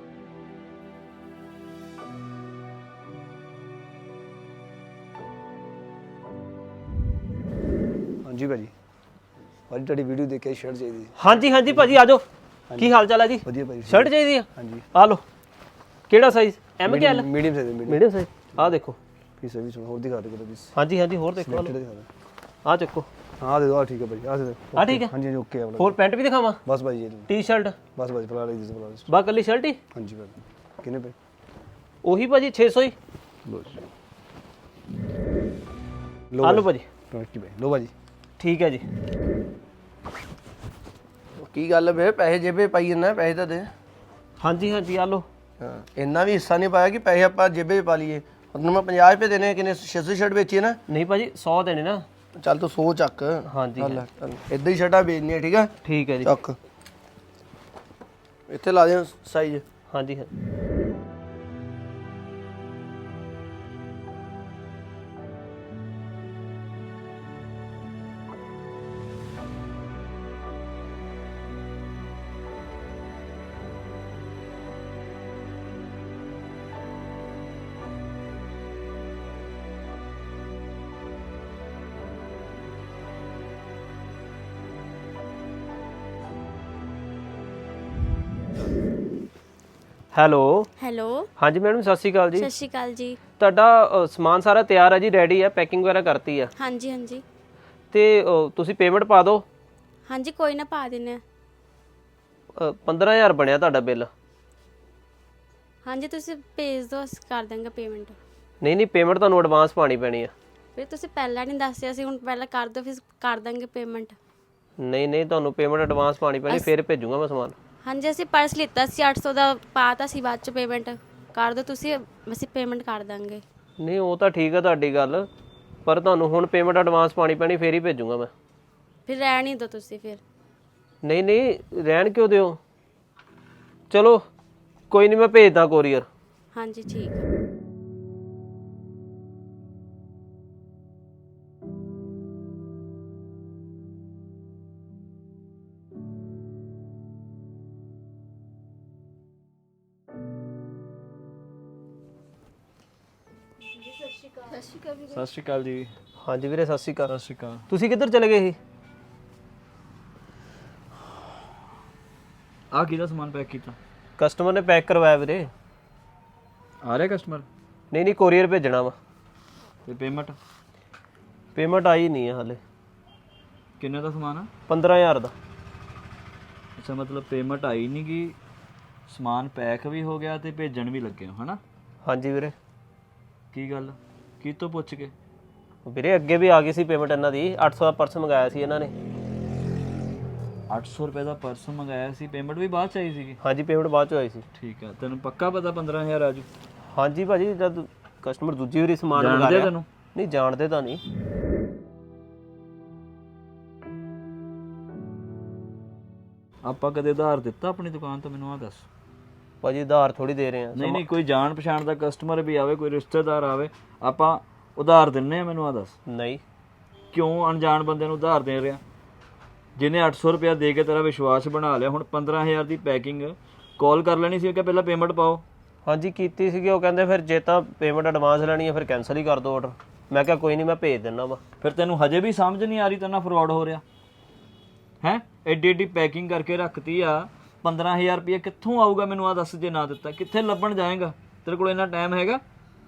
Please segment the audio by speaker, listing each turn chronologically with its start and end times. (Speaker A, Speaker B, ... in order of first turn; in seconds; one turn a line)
Speaker A: 8.2-8.7
Speaker A: 9.7-11.2
Speaker B: 11.2-12.2
Speaker A: 12.7-14.8
Speaker B: 12.8-15.2
Speaker B: 16.1-17.3
Speaker A: 16.8-18.0
Speaker B: 17.9-19.0
Speaker A: 19.4-20.7
Speaker B: 20.8-21.7
Speaker A: 21.4-22.1
Speaker B: 22.6-23.1
Speaker A: 23.4-26.0
Speaker B: 24.8-25.1
Speaker B: 25.8-26.6
Speaker A: 26.6-27.3
Speaker B: 27.3-27.8
Speaker A: 27.9-29.1
Speaker B: 29.1-29.8
Speaker A: 29.9-31.2
Speaker B: 32.0-33.0
Speaker A: 33.5-33.8
Speaker A: 36.3-37.9
Speaker B: 36.4-36.9
Speaker B: 38.4-38.9
Speaker C: 41.4-43.7
Speaker B: 44.4-45.3
Speaker C: 45.6-50.8
Speaker B: 50.9-52.0
Speaker C: 52.4-56.6
Speaker B: 53.5-54.0
Speaker B: 55.9-56.3
Speaker C: 58.5-59.6
Speaker B: 59.9-60.3
Speaker B: 90.1-90.7
Speaker D: 90.8-91.3
Speaker B: 91.4-92.5
Speaker D: 92.3-93.2
Speaker B: 93.4-96.5
Speaker D: 96.6-97.2
Speaker B: 97.9-99.4
Speaker D: 100.1-101.2
Speaker B: 102.6-104.1
Speaker D: 105.8-108.2
Speaker B: 108.6-110.3
Speaker D: 110.8-114.2
Speaker B: 114.8-117.5
Speaker D: 117.8-123.4
Speaker B: 123.8-125.3
Speaker B: 125.9-128.3
Speaker D: 129.1-130.2
Speaker B: 131.0-132.6
Speaker B: 133.9-134.2
Speaker B: 134.9-136.1
Speaker D: 136.6-137.2
Speaker D: 154.1-154.9
Speaker E: 155.0-155.9
Speaker B: 156.2-157.1
Speaker E: 157.1-157.7
Speaker B: 157.7-158.6
Speaker E: 162.7-163.8
Speaker B: 164.2-165.5
Speaker E: 166.8-167.5
Speaker B: 167.9-168.9
Speaker E: 169.9-170.4
Speaker B: 171.6-172.6
Speaker E: 173.8-174.5
Speaker B: 174.7-175.3
Speaker E: 176.8-178.4
Speaker E: 179.1-181.6
Speaker B: 182.1-182.5
Speaker E: 183.5-185.1
Speaker B: 185.8-188.9
Speaker E: 190.7-193.4
Speaker B: 193.4-194.4
Speaker E: 194.6-196.5
Speaker B: 196.9-201.0
Speaker E: 199.2-199.9
Speaker E: 206.6-208.9
Speaker B: 209.6-211.0
Speaker E: 210.8-216.0
Speaker B: 216.1-216.4
Speaker E: 217.1-218.8
Speaker E: 219.8-225.4
Speaker B: 225.9-231.4
Speaker E: 231.6-233.8
Speaker E: 235.0-242.4